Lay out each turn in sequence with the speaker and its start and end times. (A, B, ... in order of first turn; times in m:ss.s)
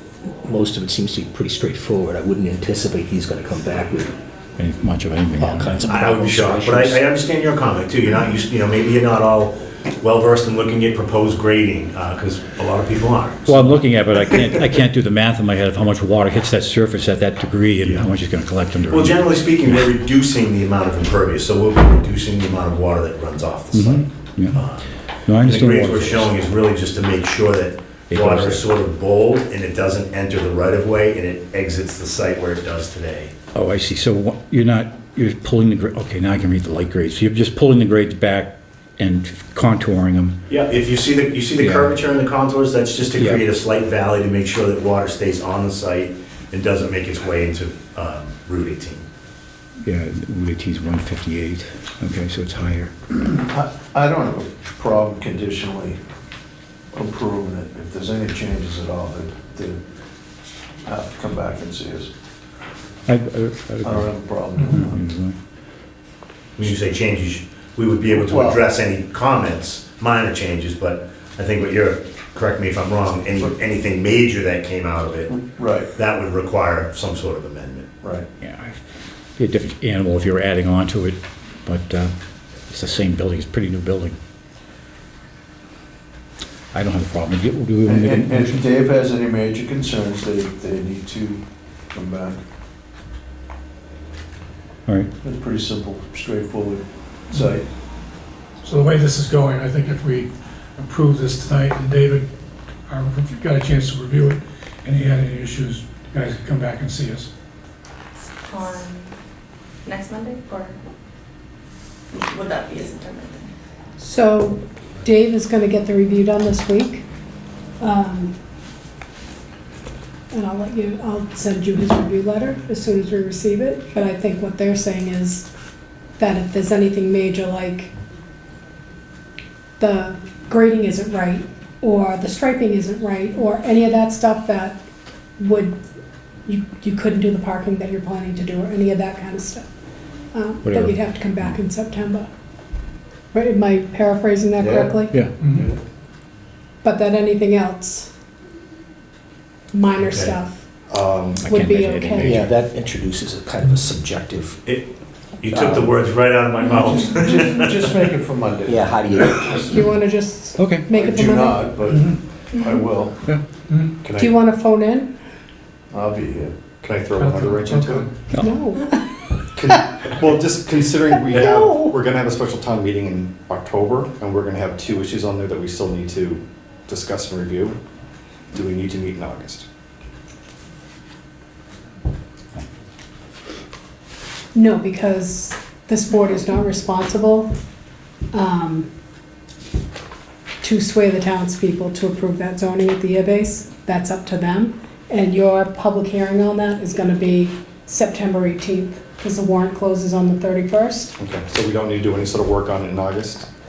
0:00.4-0:04.1 A
0:04.6-0:05.8 B
0:05.4-0:07.0 A
0:05.8-0:13.8 C
0:13.4-0:19.8 B
0:17.8-0:18.1 C
0:18.9-0:24.9 C
0:23.7-0:24.6 B
0:25.3-0:26.3 B
0:25.4-0:33.3 C
0:28.1-0:28.6 B
0:33.5-0:40.4 B
0:40.5-0:49.0 C
0:41.6-0:42.0 B
0:49.8-0:52.9 B
0:53.3-0:56.0 D
0:56.9-0:59.8 D
1:00.8-1:02.1 D
1:03.1-1:05.4 B
1:03.8-1:05.0 D
1:06.6-1:15.4 C
1:08.1-1:08.6 D
1:15.3-1:15.9 D
1:16.0-1:17.9 C
1:18.4-1:18.8 B
1:19.4-1:22.1 B
1:22.7-1:24.2 B
1:26.7-1:28.7 B
1:27.8-1:32.4 D
1:35.2-1:37.6 D
1:38.6-1:42.2 E
1:42.9-1:47.3 E
1:48.4-1:49.1 F
1:49.8-1:50.8 F
1:52.1-1:53.5 F
1:54.0-1:57.0 G
1:57.8-1:58.3 G
2:00.3-2:05.5 G
2:06.2-2:07.9 G
2:09.8-2:14.8 G
2:15.4-2:15.8 G
2:16.4-2:19.6 G
2:20.3-2:22.3 G
2:20.6-2:21.6 B
2:23.3-2:25.2 G
2:24.6-2:25.0 D
2:25.1-2:25.4 B
2:25.4-2:25.7 E
2:26.8-2:28.1 G
2:29.7-2:30.6 G
2:30.0-2:30.3 C
2:30.9-2:31.4 H
2:31.4-2:32.6 B
2:31.4-2:32.4 G
2:32.2-2:34.6 A
2:34.6-2:37.9 C
2:35.5-2:35.8 D
2:37.0-2:39.9 D
2:38.6-2:39.7 A
2:39.7-2:41.7 G
2:40.6-2:40.9 B
2:40.9-2:43.2 D
2:44.0-2:44.4 H
2:44.2-2:45.1 G
2:45.9-2:46.5 D
2:46.8-2:48.1 H
2:47.2-2:48.1 E
2:48.4-2:49.1 G
2:49.5-2:57.8 H
2:51.3-2:51.9 G
2:58.5-2:59.6 H
3:04.5-3:07.5 G
3:08.3-3:08.9 G
3:10.6-3:21.2 G
3:21.2-3:23.5 H